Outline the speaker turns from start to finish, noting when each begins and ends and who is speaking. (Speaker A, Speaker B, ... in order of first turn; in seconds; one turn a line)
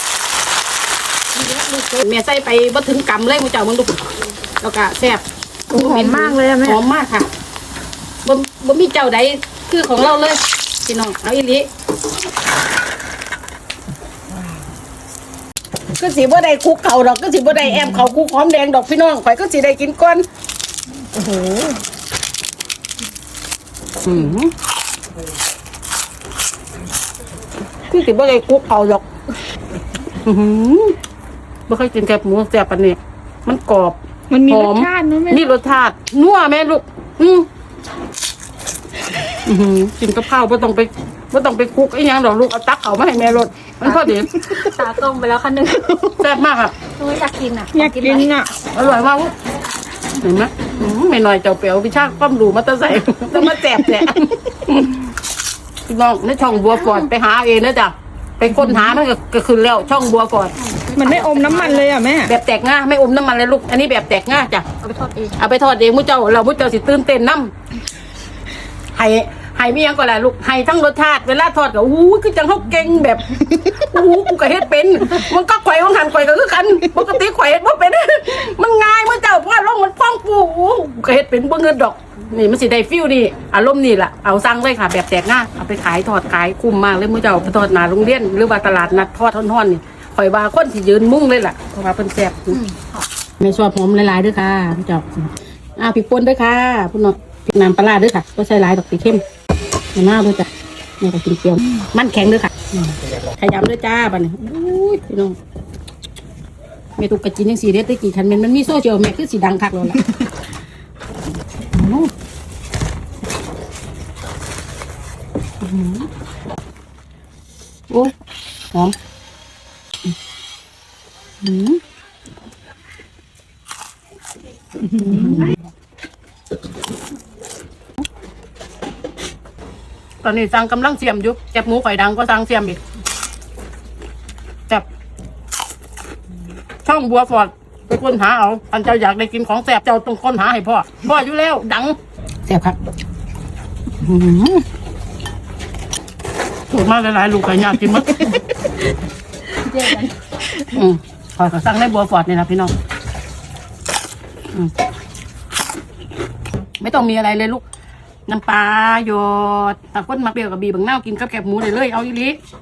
Speaker A: 1.5-7.3
Speaker B: 5.7-6.8
Speaker A: 8.2-11.7
Speaker A: 15.9-20.2
Speaker B: 21.1-21.8
Speaker A: 24.1-24.5
Speaker A: 27.9-29.0
Speaker A: 30.1-30.9
Speaker A: 31.7-37.5
Speaker B: 34.3-35.5
Speaker A: 39.5-44.5
Speaker C: 43.8-45.9
Speaker B: 44.2-44.7
Speaker B: 45.8-46.2
Speaker A: 46.1-46.8
Speaker C: 46.9-48.3
Speaker B: 47.7-48.5
Speaker A: 48.7-49.3
Speaker A: 50.2-55.0
Speaker B: 53.7-54.3
Speaker A: 55.9-60.5
Speaker C: 56.7-57.0
Speaker C: 60.6-61.9
Speaker B: 61.0-62.3
Speaker A: 62.3-64.7
Speaker C: 64.8-65.4
Speaker A: 65.4-67.5
Speaker A: 68.9-92.6
Speaker C: 92.5-93.0
Speaker A: 93.4-99.2
Speaker A: 100.0-100.5
Speaker A: 101.0-105.4
Speaker A: 107.0-110.0
Speaker A: 111.7-112.1
Speaker A: 115.6-116.1
Speaker A: 121.4-121.8
Speaker B: 124.9-125.5
Speaker A: 125.0-125.6
Speaker A: 130.2-132.8
Speaker A: 136.8-141.9
Speaker A: 142.5-142.8
Speaker A: 144.0-144.6
Speaker A: 146.7-148.4
Speaker A: 150.6-152.7
Speaker A: 156.8-157.6
Speaker A: 158.3-162.4